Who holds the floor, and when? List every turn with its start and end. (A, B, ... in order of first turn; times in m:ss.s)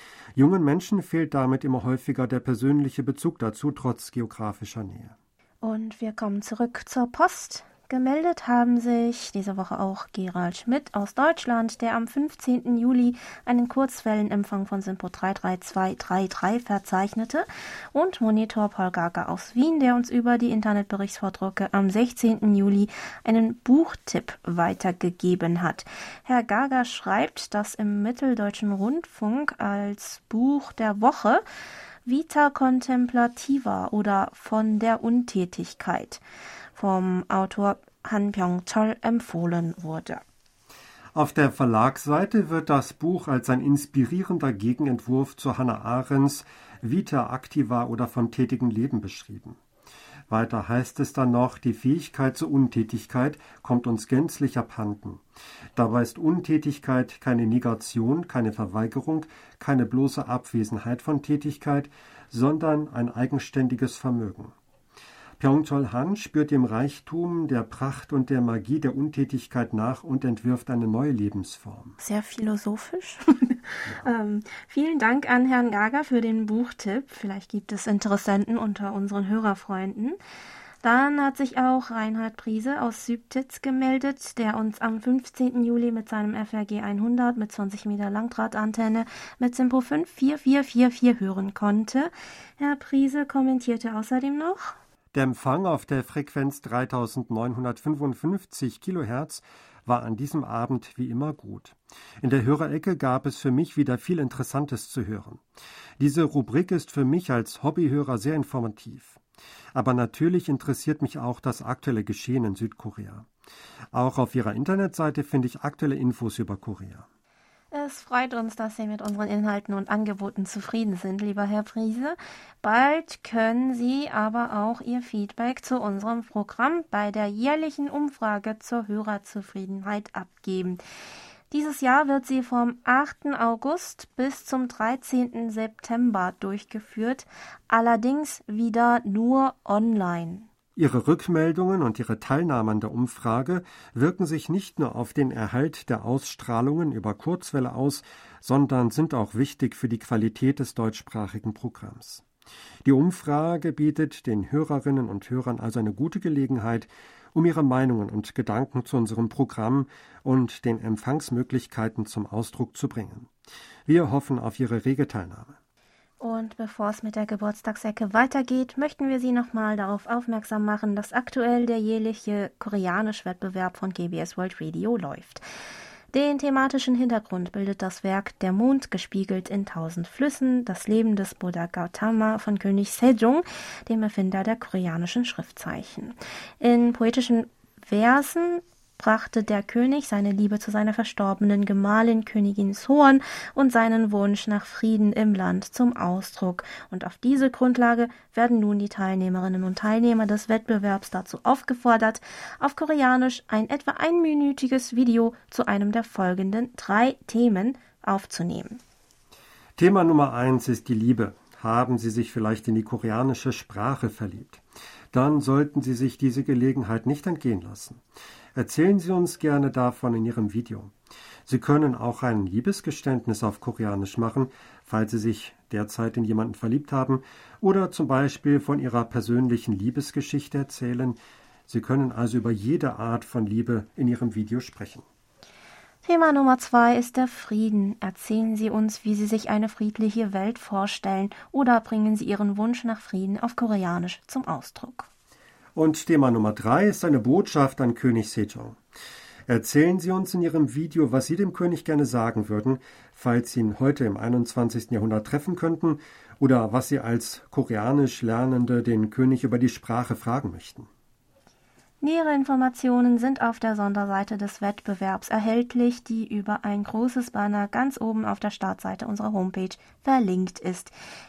0:00.4-0:05.2 A
0:05.6-0:31.4 B
0:32.1-0:36.2 B
0:36.8-0:40.2 B
0:41.1-0:49.6 A
0:50.3-0:55.2 A
0:55.8-1:04.6 A
1:05.4-1:12.0 A
1:12.0-1:20.2 B
1:20.8-1:34.8 B
1:35.1-1:45.4 A
1:46.0-1:49.2 A
1:49.8-1:53.3 A
1:53.9-1:57.1 A
1:57.7-2:10.8 B
2:11.5-2:20.5 B
2:20.8-2:32.2 A
2:32.8-2:43.3 A
2:43.9-2:45.6 A
2:46.2-2:55.4 B
2:56.1-3:28.8 B
3:29.8-3:38.0 A
3:38.6-3:40.9 A
3:41.5-3:51.2 A
3:51.7-3:55.0 A
3:56.0-4:05.1 B
4:05.8-4:08.8 A
4:09.5-4:20.9 A
4:22.0-4:30.9 B